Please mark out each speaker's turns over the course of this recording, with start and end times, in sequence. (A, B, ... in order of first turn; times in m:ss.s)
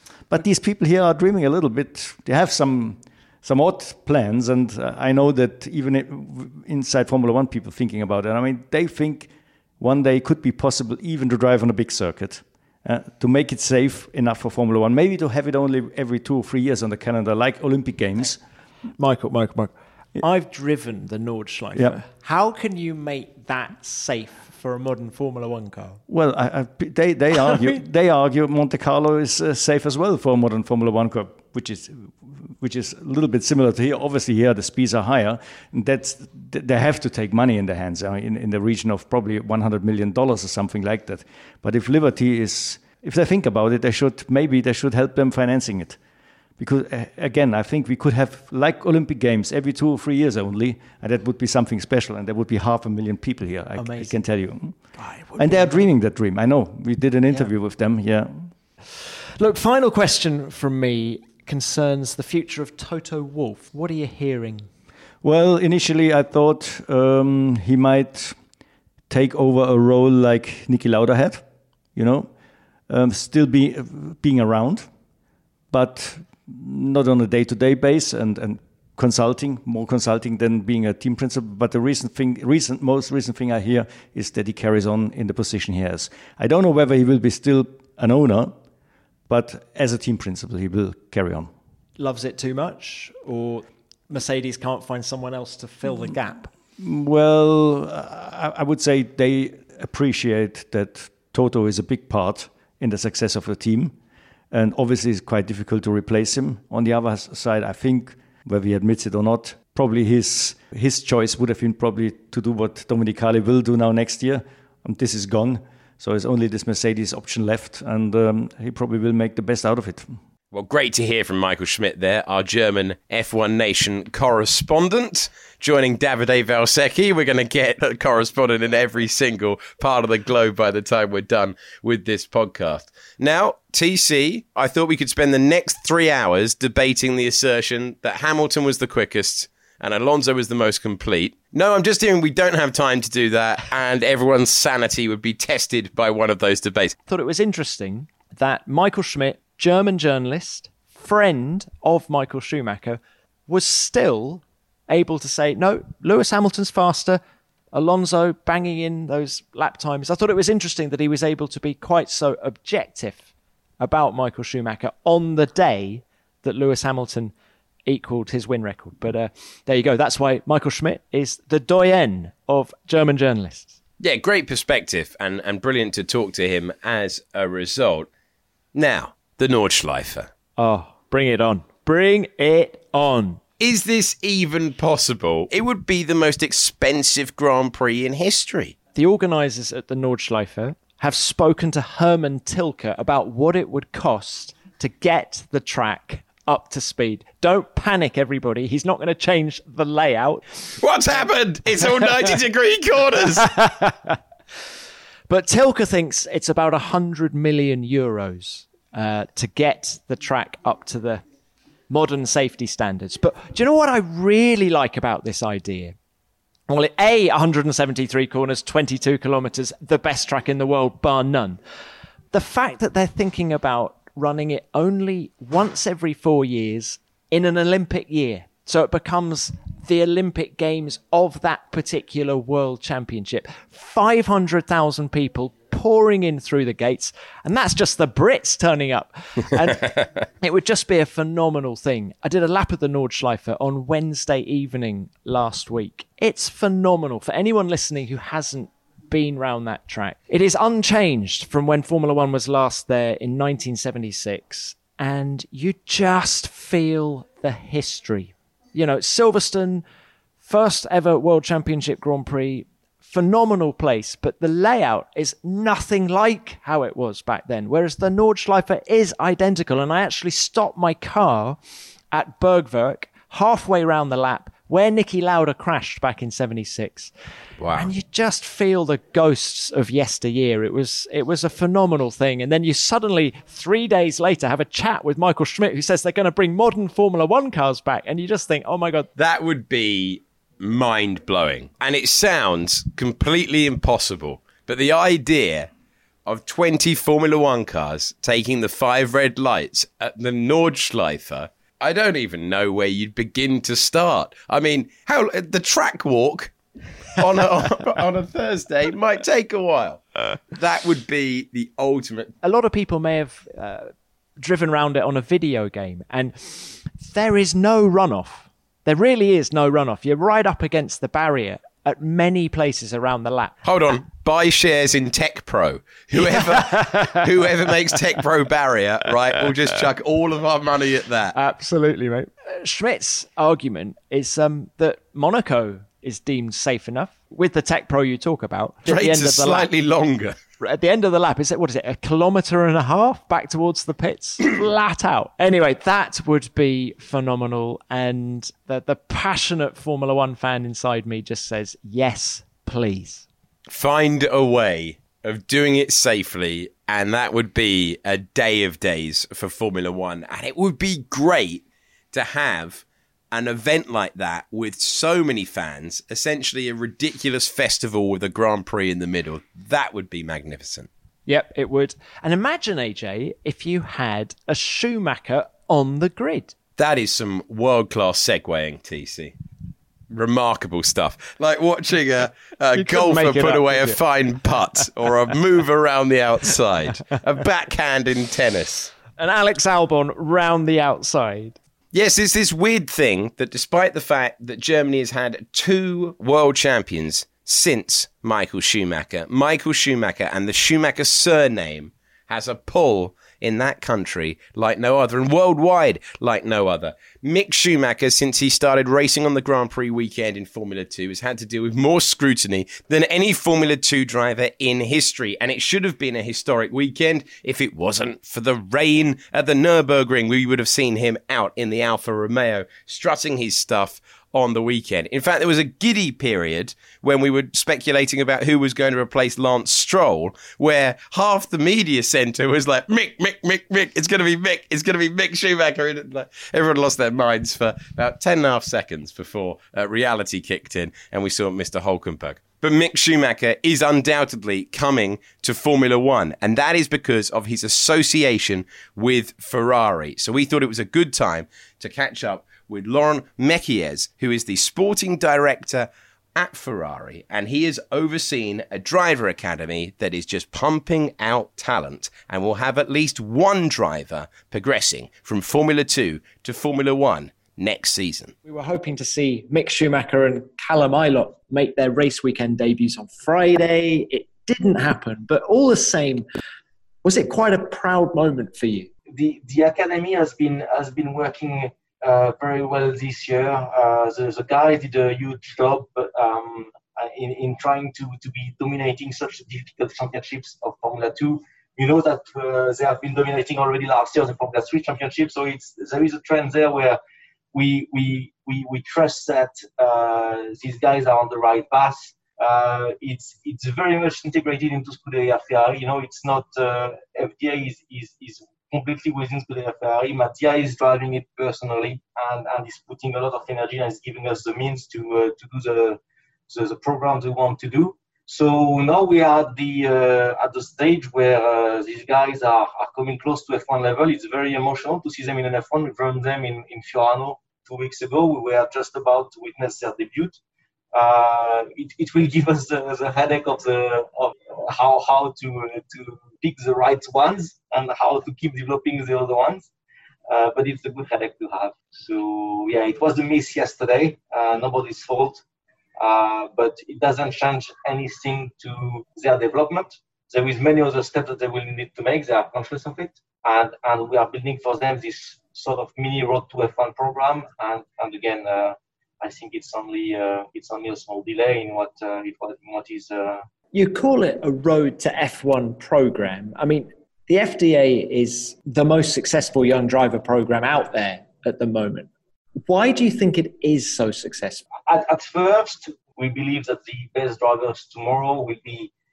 0:00.3-0:18.4 A
0:19.0-0:26.0 B
0:26.1-0:46.0 A
0:46.6-0:54.8 A
0:53.8-0:54.1 B
0:55.0-0:55.8 B
0:55.4-0:58.5 A
0:59.4-1:04.7 B
1:05.2-1:08.4 A
1:09.1-1:11.4 A
1:11.9-1:12.3 A
1:12.9-1:14.9 A
1:15.7-1:28.6 A
1:29.3-1:31.5 A
1:32.0-1:36.5 B
1:36.8-1:43.9 A
1:44.5-2:00.1 A
2:00.5-2:27.0 C
2:27.1-2:37.2 B
2:37.7-2:43.3 B
2:43.8-2:47.3 B
2:47.9-2:53.8 B
2:54.0-2:58.1 C
2:58.7-3:00.3 C
3:00.6-3:03.4 B
3:03.6-3:08.7 C
3:08.9-3:20.7 B
3:20.8-3:23.6 C
3:23.4-3:24.2 B
3:25.3-3:31.2 B
3:31.9-3:36.0 B
3:36.7-3:41.6 B
3:42.3-4:19.8 B
4:20.4-4:31.6 B
4:32.1-4:37.1 B
4:37.6-4:37.9 C
4:37.8-4:49.1 B
4:49.2-4:55.7 C
4:56.2-5:06.5 C
5:07.2-5:12.3 C
5:12.4-5:23.6 B
5:23.6-5:31.4 C
5:26.2-5:27.1 B
5:31.3-5:39.7 B
5:38.9-5:40.4 C
5:40.6-5:53.2 B
5:53.7-6:10.9 C
6:11.3-6:16.5 B
6:16.8-6:19.4 C
6:20.1-6:28.9 C
6:22.7-6:24.0 B
6:29.2-6:31.6 B
6:31.9-7:48.4 C
7:48.5-7:49.4 B
7:49.4-7:56.2 D
7:57.0-7:58.9 D
7:59.1-8:17.0 E
8:17.5-8:50.4 E
8:50.9-8:59.7 E
9:00.3-9:05.4 E
9:06.0-9:23.4 E
9:23.7-9:32.1 D
9:32.6-9:34.6 D
9:34.8-9:38.9 E